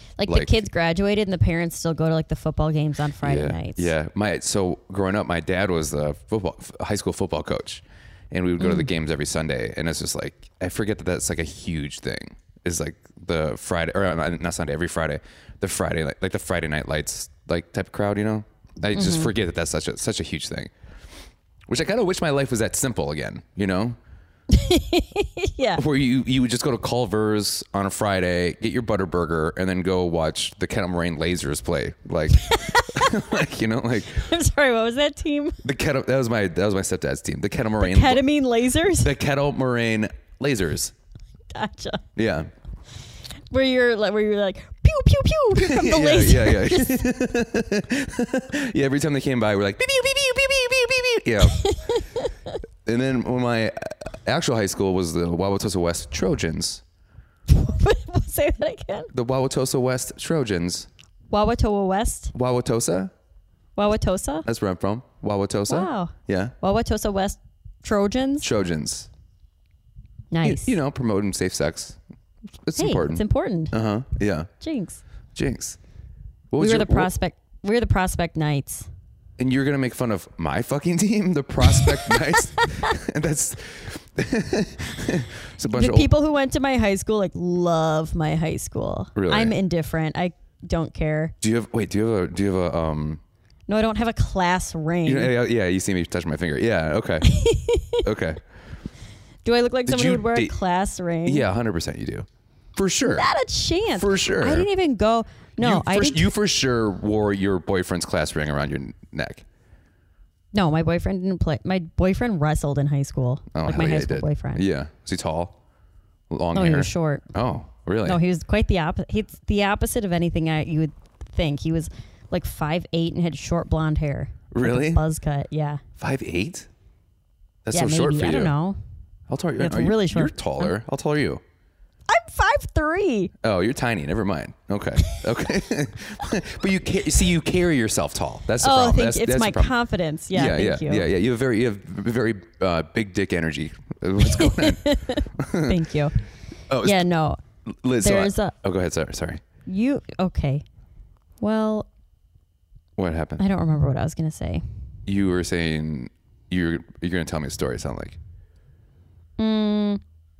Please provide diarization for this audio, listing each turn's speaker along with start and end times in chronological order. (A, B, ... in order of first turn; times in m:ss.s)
0:00.2-0:03.9 A
0:00.3-0:00.6 B
0:03.2-0:20.7 B
0:08.6-0:08.9 A
0:18.9-0:19.3 A
0:21.7-0:24.0 B
0:24.5-0:25.8 A
0:25.8-0:34.3 B
0:32.4-0:33.4 A
0:34.1-0:35.6 A
0:35.6-0:38.2 B
0:37.8-0:39.1 A
0:39.0-0:40.9 B
0:41.5-0:42.0 A
0:42.2-0:42.5 B
0:43.5-0:47.0 A
0:45.6-0:51.7 B
0:51.4-0:52.5 A
0:52.8-0:56.8 B
0:57.5-0:59.1 A
0:59.1-1:00.9 B
1:01.3-1:02.3 A
1:02.3-1:03.1 B
1:03.8-1:04.5 A
1:04.4-1:06.5 B
1:05.7-1:08.5 A
1:08.4-1:09.1 B
1:10.3-1:10.8 A
1:10.4-1:12.0 B
1:12.6-1:14.5 B
1:12.8-1:13.8 A
1:14.6-1:15.0 A
1:15.4-1:15.8 B
1:16.5-1:17.1 B
1:16.6-1:18.9 A
1:19.4-1:26.1 B
1:21.7-1:22.0 A
1:22.5-1:22.9 A
1:25.7-1:31.3 A
1:29.2-1:29.5 B
1:31.4-1:33.2 B
1:33.7-1:35.3 A
1:35.1-1:37.3 B
1:37.2-1:38.0 A
1:38.0-1:38.4 B
1:39.4-1:41.4 A
1:39.9-1:40.5 B
1:41.2-1:43.3 B
1:43.0-1:46.3 A
1:44.0-1:44.7 B
1:45.6-1:49.4 B
1:50.5-1:54.6 A
1:53.5-1:55.6 B
1:56.3-1:58.2 B
1:56.5-1:57.2 A
1:58.0-2:05.8 A
2:04.5-2:05.0 B
2:06.0-2:06.7 B
2:07.6-2:08.5 B
2:07.7-2:08.8 A
2:09.3-2:11.4 B
2:09.6-2:10.7 A
2:12.1-2:13.3 A
2:13.4-2:19.7 B
2:18.6-2:21.1 A
2:20.3-2:25.8 B
2:24.2-2:26.2 A
2:26.7-2:27.1 B
2:26.8-2:27.4 A
2:27.6-2:29.4 B
2:28.0-2:28.5 A
2:29.6-2:30.6 A
2:31.4-2:31.9 A
2:33.0-2:33.4 B
2:33.4-2:34.6 A
2:35.1-2:38.2 B
2:39.4-2:40.0 A